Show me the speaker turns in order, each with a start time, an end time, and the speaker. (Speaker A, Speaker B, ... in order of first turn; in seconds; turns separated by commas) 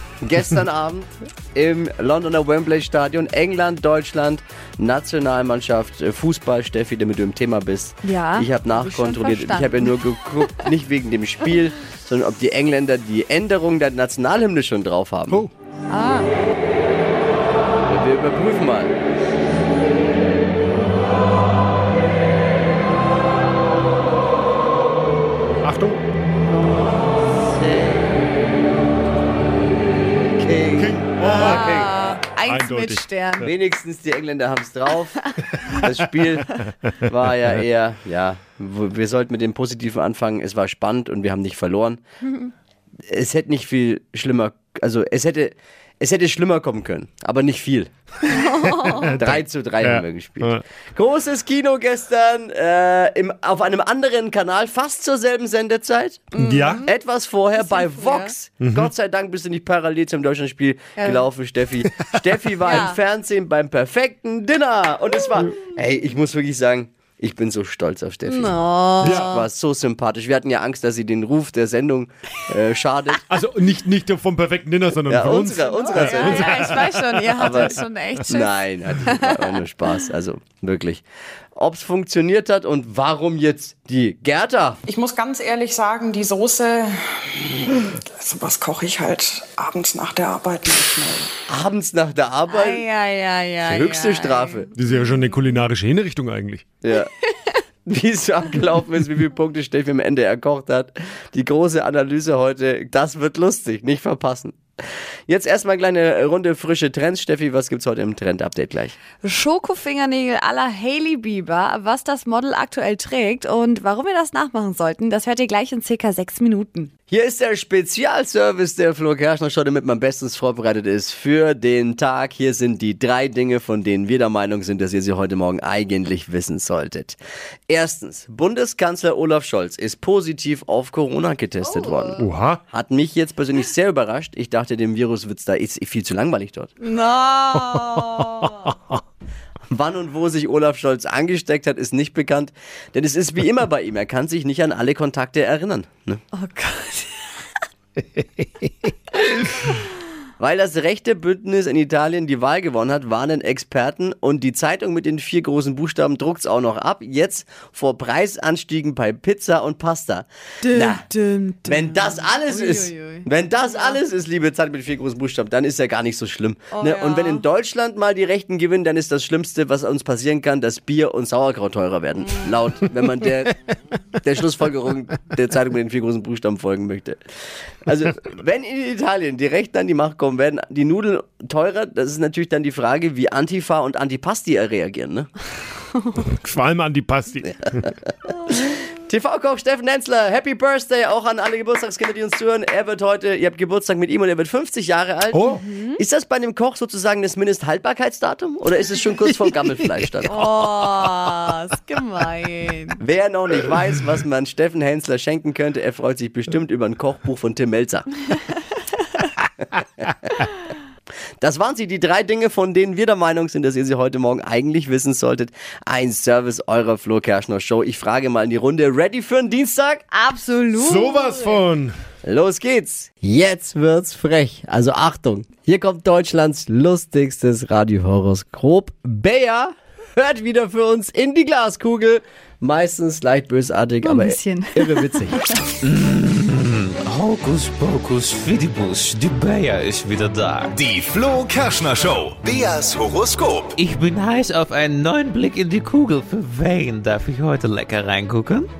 Speaker A: 0.2-15.4, Speaker B: 8.0-10.0, Speaker B: 15.9-16.3, Speaker A: 17.9-18.9, Speaker C: 25.6-26.0, Speaker A: 27.5-28.1, Speaker A: 30.2-31.7, Speaker C: 30.8-31.9, Speaker B: 31.2-33.5, Speaker C: 32.4-33.0, Speaker A: 33.4-42.0, Speaker A: 43.1-48.4, Speaker B: 48.3-49.2, Speaker C: 48.8-50.6, Speaker A: 49.2-56.3, Speaker C: 56.4-56.8, Speaker B: 56.4-56.9, Speaker A: 56.8-73.2, Speaker B: 57.5-58.3, Speaker C: 58.6-58.9, Speaker B: 61.0-61.2, Speaker B: 62.6-63.0, Speaker B: 68.2-69.5, Speaker C: 69.0-69.3, Speaker C: 73.3-76.9, Speaker A: 75.0-76.7, Speaker B: 75.6-79.5, Speaker A: 77.4-81.0, Speaker A: 81.5-84.8, Speaker D: 84.9-91.3, Speaker A: 91.5-92.8, Speaker B: 92.5-94.7, Speaker A: 93.6-94.7, Speaker C: 94.7-96.6, Speaker A: 96.8-97.1, Speaker A: 97.9-104.6, Speaker A: 105.3-108.9, Speaker B: 109.2-116.9, Speaker A: 117.1-127.2, Speaker A: 127.7-136.7, Speaker B: 131.6-132.2, Speaker C: 132.2-132.6, Speaker B: 136.8-138.5, Speaker A: 139.7-146.2, Speaker B: 146.3-147.1, Speaker A: 150.4-161.0, Speaker B: 160.6-164.0, Speaker A: 161.7-173.5, Speaker B: 166.7-167.4, Speaker A: 174.2-177.2, Speaker A: 177.8-185.3, Speaker C: 186.2-187.9, Speaker A: 188.5-200.5, Speaker B: 195.5-196.0, Speaker B: 200.3-203.0, Speaker A: 203.0-208.1, Speaker A: 211.4-220.0, Speaker B: 220.1-221.6, Speaker C: 220.8-221.9, Speaker A: 222.2-235.4, Speaker B: 234.0-235.5, Speaker E: 235.8-240.8, Speaker F: 240.8-243.8, Speaker E: 243.7-248.7